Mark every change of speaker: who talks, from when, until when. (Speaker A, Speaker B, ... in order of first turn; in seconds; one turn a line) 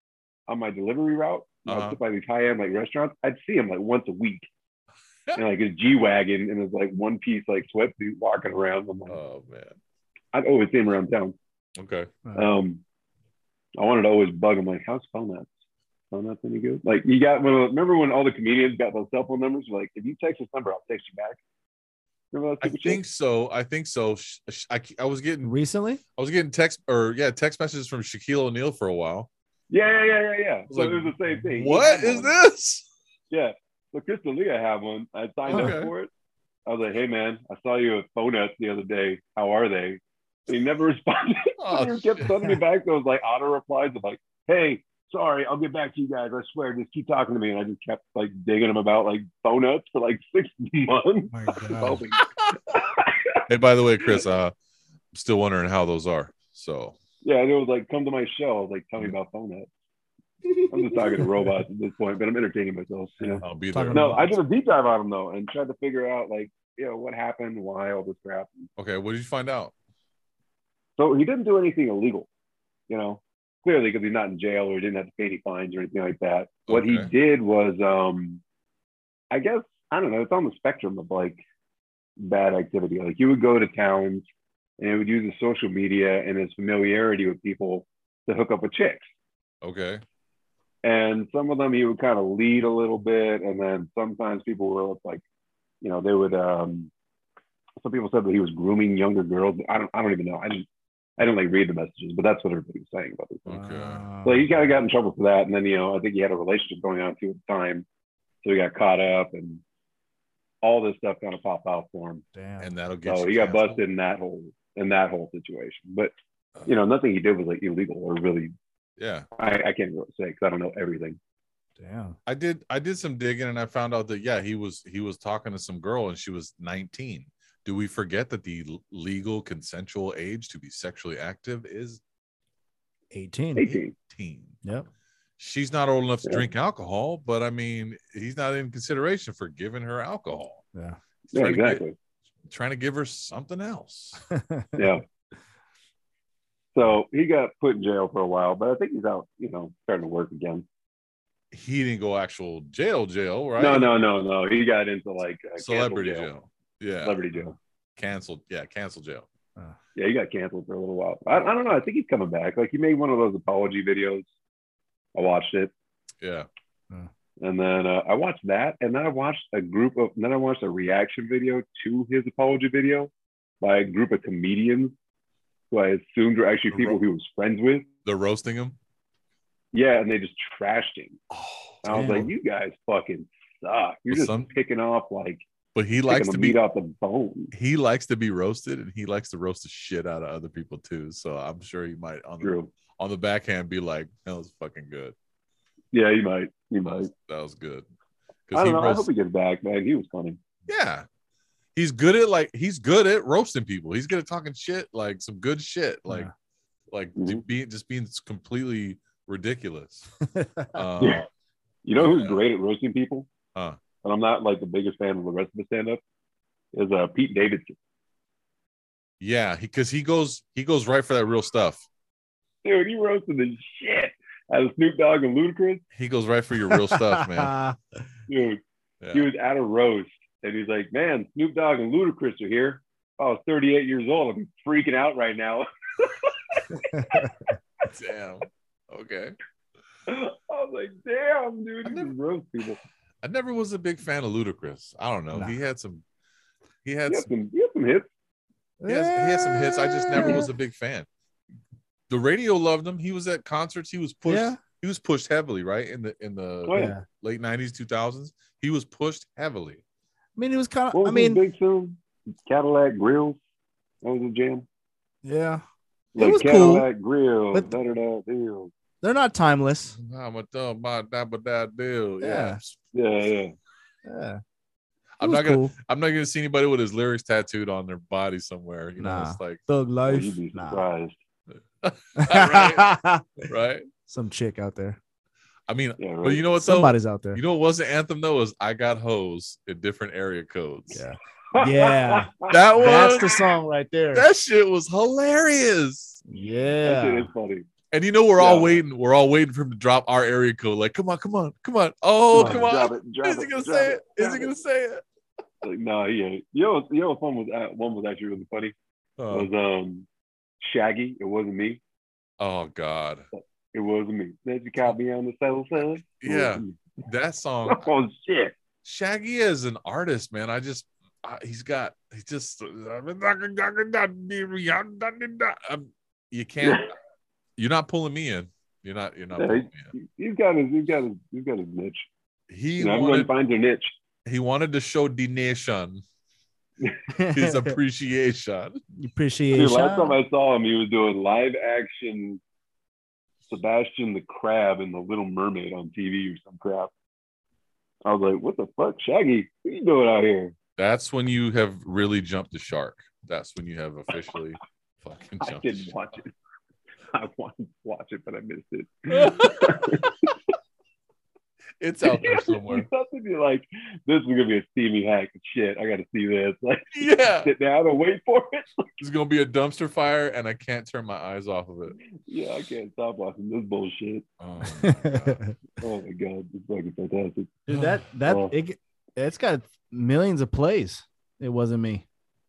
Speaker A: 0.5-4.5
Speaker B: 1.6-2.0
Speaker A: 5.3-9.2
Speaker B: 9.1-9.8
Speaker A: 10.3-11.3
Speaker B: 11.8-12.1
Speaker C: 12.2-12.5
Speaker A: 12.3-12.8
Speaker A: 13.8-15.5
Speaker A: 16.1-21.4
Speaker A: 22.3-23.0
Speaker B: 22.6-25.5
Speaker C: 25.4-26.0
Speaker B: 26.2-29.3
Speaker A: 29.7-32.3
Speaker B: 30.7-32.8
Speaker A: 33.3-36.1
Speaker B: 35.5-35.9
Speaker A: 36.6-53.4
Speaker B: 41.6-42.3
Speaker C: 51.3-52.0
Speaker B: 53.5-54.5
Speaker B: 55.1-57.0
Speaker A: 57.2-59.7
Speaker C: 60.6-61.3
Speaker A: 60.7-68.7
Speaker C: 63.2-64.3
Speaker B: 63.4-64.3
Speaker B: 68.8-69.7
Speaker A: 71.0-72.3
Speaker A: 72.9-78.4
Speaker B: 76.7-77.1
Speaker A: 79.3-81.4
Speaker A: 82.2-84.2
Speaker A: 84.8-89.1
Speaker B: 89.6-90.0
Speaker A: 90.8-95.2
Speaker A: 95.8-96.9
Speaker A: 97.8-100.7
Speaker A: 101.2-103.5
Speaker B: 103.5-104.0
Speaker C: 103.5-104.5
Speaker A: 104.2-107.8
Speaker A: 108.4-109.6
Speaker A: 110.6-112.2
Speaker C: 112.3-112.7
Speaker B: 112.6-113.8
Speaker A: 113.0-116.1
Speaker A: 116.7-118.5
Speaker B: 119.0-119.3
Speaker A: 119.3-121.2
Speaker C: 121.8-122.2
Speaker B: 122.3-132.0
Speaker C: 133.1-133.8
Speaker A: 133.6-133.9
Speaker B: 133.9-134.6
Speaker B: 135.4-140.6
Speaker B: 141.3-141.8
Speaker A: 141.3-141.9
Speaker B: 142.5-144.2
Speaker C: 144.3-144.7
Speaker A: 144.8-145.0
Speaker A: 146.7-150.7
Speaker B: 151.5-153.9
Speaker A: 153.6-156.3
Speaker B: 155.6-157.2
Speaker A: 157.0-157.6
Speaker B: 158.0-159.2
Speaker A: 159.9-164.3
Speaker A: 165.1-165.7
Speaker B: 166.2-166.5
Speaker A: 167.4-174.9
Speaker A: 175.7-177.9
Speaker B: 176.7-177.0
Speaker B: 178.0-178.8
Speaker A: 179.7-181.2
Speaker B: 181.3-182.3
Speaker A: 181.8-185.4
Speaker C: 181.9-182.3
Speaker B: 184.1-184.5
Speaker B: 185.7-186.6
Speaker A: 186.1-187.5
Speaker B: 187.5-195.1
Speaker A: 192.4-192.7
Speaker A: 195.9-197.1
Speaker B: 196.8-197.8
Speaker B: 198.5-199.1
Speaker A: 198.5-200.4
Speaker B: 200.7-201.0
Speaker B: 201.7-206.3
Speaker B: 206.9-210.1
Speaker A: 207.2-207.4
Speaker C: 210.3-210.8
Speaker B: 210.7-211.2
Speaker A: 211.0-211.2
Speaker A: 211.8-213.3
Speaker B: 212.0-212.4
Speaker A: 214.0-216.0
Speaker A: 216.7-217.8
Speaker B: 219.2-221.8
Speaker A: 222.6-225.8
Speaker B: 225.9-227.5
Speaker C: 226.7-227.8
Speaker A: 228.3-228.6
Speaker B: 229.0-229.3
Speaker A: 229.1-237.3
Speaker C: 236.7-237.3
Speaker B: 237.8-239.4
Speaker A: 240.1-242.8
Speaker B: 241.8-242.1
Speaker B: 243.2-246.0
Speaker B: 246.8-247.3
Speaker A: 247.1-248.1
Speaker C: 248.8-250.4
Speaker B: 248.9-251.1
Speaker A: 250.1-250.4
Speaker B: 252.1-259.8
Speaker C: 254.2-254.6
Speaker A: 256.6-256.9
Speaker C: 256.7-257.0
Speaker C: 260.4-261.4
Speaker A: 260.9-263.4
Speaker A: 264.0-264.6
Speaker C: 265.2-265.6
Speaker A: 266.1-268.7
Speaker C: 266.2-266.9
Speaker C: 269.0-269.9
Speaker B: 269.9-272.8
Speaker C: 272.2-272.6
Speaker A: 272.9-273.5
Speaker C: 274.0-274.4
Speaker B: 275.2-279.6
Speaker C: 275.2-275.7
Speaker C: 279.0-280.9
Speaker A: 280.0-281.2
Speaker B: 281.8-282.9
Speaker C: 282.2-283.5
Speaker B: 283.5-283.9
Speaker C: 284.1-285.0
Speaker B: 285.7-291.0
Speaker A: 286.0-286.5
Speaker C: 286.6-287.4
Speaker C: 290.9-294.2
Speaker A: 291.5-293.2
Speaker B: 292.5-293.4
Speaker B: 294.1-296.2
Speaker C: 296.3-297.3
Speaker A: 296.8-297.7
Speaker B: 297.9-305.0
Speaker A: 298.4-298.8
Speaker A: 302.3-304.5
Speaker C: 302.4-302.7
Speaker A: 305.6-308.7
Speaker B: 309.2-309.5
Speaker A: 309.3-310.1
Speaker A: 310.6-311.8
Speaker B: 312.4-313.2
Speaker A: 313.3-316.8
Speaker B: 316.0-317.9
Speaker A: 317.7-318.5
Speaker B: 318.8-326.9
Speaker B: 327.6-329.9
Speaker A: 329.4-332.1
Speaker B: 332.5-333.3
Speaker A: 332.8-333.9
Speaker B: 334.2-336.0
Speaker C: 337.1-337.7
Speaker B: 337.3-338.8
Speaker C: 339.0-340.2
Speaker A: 339.5-342.4
Speaker A: 343.5-346.9
Speaker A: 348.0-350.5
Speaker B: 350.8-355.9
Speaker A: 355.4-356.3
Speaker A: 357.1-360.3
Speaker B: 359.1-360.1
Speaker B: 361.8-362.9
Speaker A: 362.0-368.9
Speaker B: 366.9-367.5
Speaker B: 369.0-372.0
Speaker A: 372.2-374.2
Speaker B: 374.4-375.4
Speaker C: 374.8-375.5
Speaker A: 375.8-377.6
Speaker C: 377.7-382.0
Speaker B: 377.7-378.0
Speaker A: 378.2-378.5